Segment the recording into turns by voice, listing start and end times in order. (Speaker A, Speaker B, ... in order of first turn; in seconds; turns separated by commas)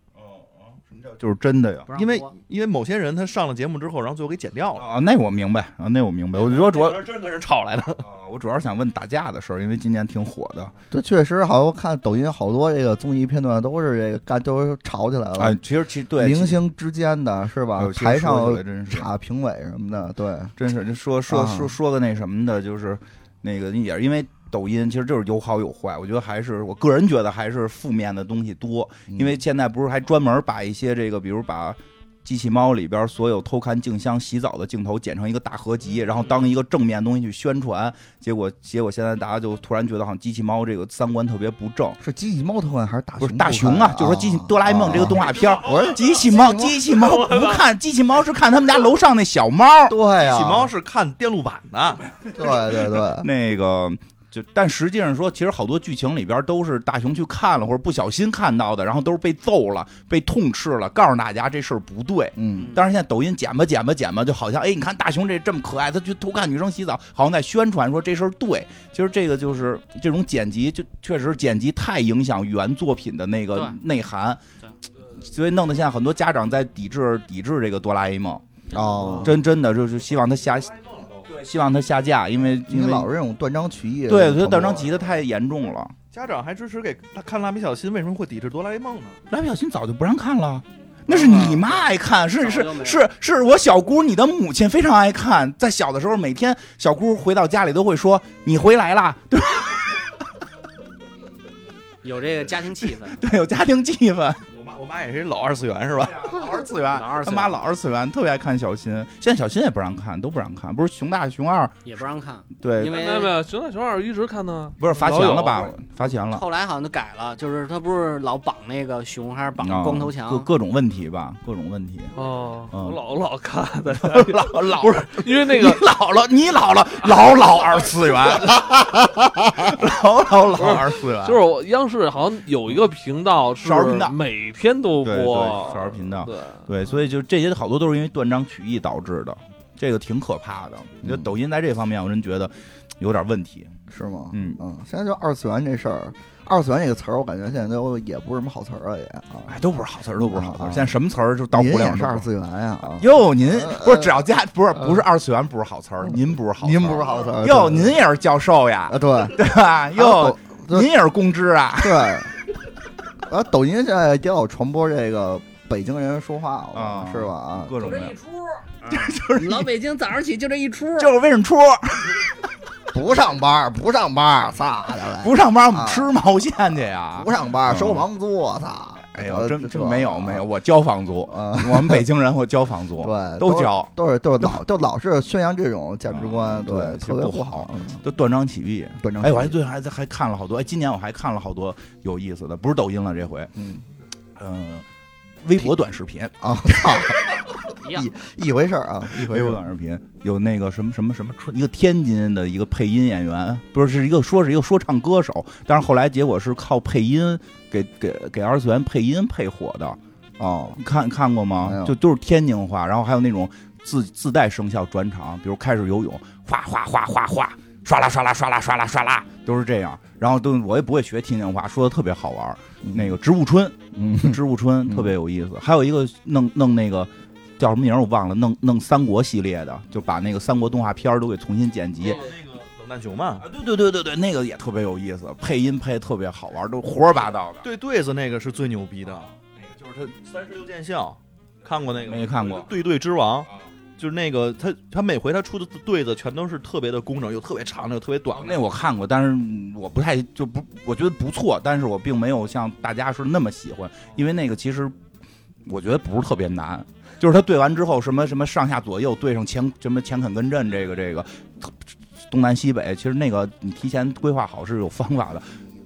Speaker A: 0.2-1.9, Speaker B: 1.9-2.3, Speaker C: 1.9-4.8, Speaker A: 4.8-7.1, Speaker C: 6.5-8.0, Speaker A: 8.0-10.7, Speaker D: 10.9-15.6, Speaker A: 15.4-16.6, Speaker D: 16.2-20.5, Speaker A: 17.7-19.1, Speaker A: 20.6-42.0, Speaker D: 21.3-21.7, Speaker D: 29.1-29.4, Speaker D: 42.0-46.8, Speaker A: 43.2-50.0, Speaker E: 46.9-47.6, Speaker D: 49.9-50.7, Speaker C: 50.2-52.1, Speaker D: 52.3-53.3, Speaker A: 53.1-74.4, Speaker D: 62.4-62.7, Speaker B: 62.5-62.8, Speaker A: 75.2-78.4, Speaker D: 78.7-79.4, Speaker B: 78.8-79.2, Speaker A: 79.2-80.7, Speaker C: 80.7-81.2, Speaker A: 81.2-83.1, Speaker D: 82.7-85.0, Speaker A: 84.1-85.9, Speaker C: 86.1-89.2, Speaker A: 89.3-100.1, Speaker B: 91.1-93.0, Speaker B: 102.0-103.2, Speaker A: 103.0-104.4, Speaker C: 104.5-106.3, Speaker A: 106.3-111.8, Speaker B: 106.7-107.6, Speaker B: 111.8-113.3, Speaker A: 112.6-113.0, Speaker E: 112.8-115.7, Speaker A: 114.8-116.4, Speaker B: 116.3-120.5, Speaker A: 119.6-122.1, Speaker E: 122.2-125.8, Speaker A: 122.7-123.0, Speaker A: 124.0-131.4, Speaker E: 130.6-136.7, Speaker A: 133.6-134.2, Speaker A: 135.0-143.7, Speaker D: 143.9-149.6, Speaker A: 144.3-144.6, Speaker A: 149.5-152.3, Speaker D: 150.2-151.0, Speaker D: 151.5-155.0, Speaker A: 152.9-162.2, Speaker D: 156.1-158.0, Speaker D: 158.9-159.4, Speaker D: 159.9-160.9, Speaker D: 161.8-162.3, Speaker D: 163.2-167.8, Speaker A: 166.7-168.2, Speaker B: 167.8-171.1, Speaker A: 168.9-169.7, Speaker A: 171.0-172.2, Speaker D: 172.9-176.1, Speaker A: 175.2-178.0, Speaker D: 177.1-180.4, Speaker A: 179.1-183.9, Speaker D: 181.3-182.0, Speaker D: 183.0-188.0, Speaker A: 186.1-193.5, Speaker D: 189.0-189.6, Speaker D: 193.6-193.8, Speaker A: 194.3-194.8, Speaker A: 195.4-197.1, Speaker D: 196.4-197.3, Speaker B: 197.8-198.1, Speaker D: 197.9-199.6, Speaker A: 199.1-210.0, Speaker D: 210.4-210.8, Speaker A: 210.8-232.2, Speaker D: 211.6-211.9, Speaker D: 222.8-223.2, Speaker D: 224.0-224.4, Speaker D: 224.9-225.1, Speaker C: 232.0-233.5, Speaker A: 233.4-237.6, Speaker C: 237.6-239.3, Speaker A: 239.6-240.1, Speaker C: 240.2-248.6, Speaker A: 242.0-242.7, Speaker A: 248.3-254.9, Speaker A: 255.6-261.7, Speaker A: 262.3-265.6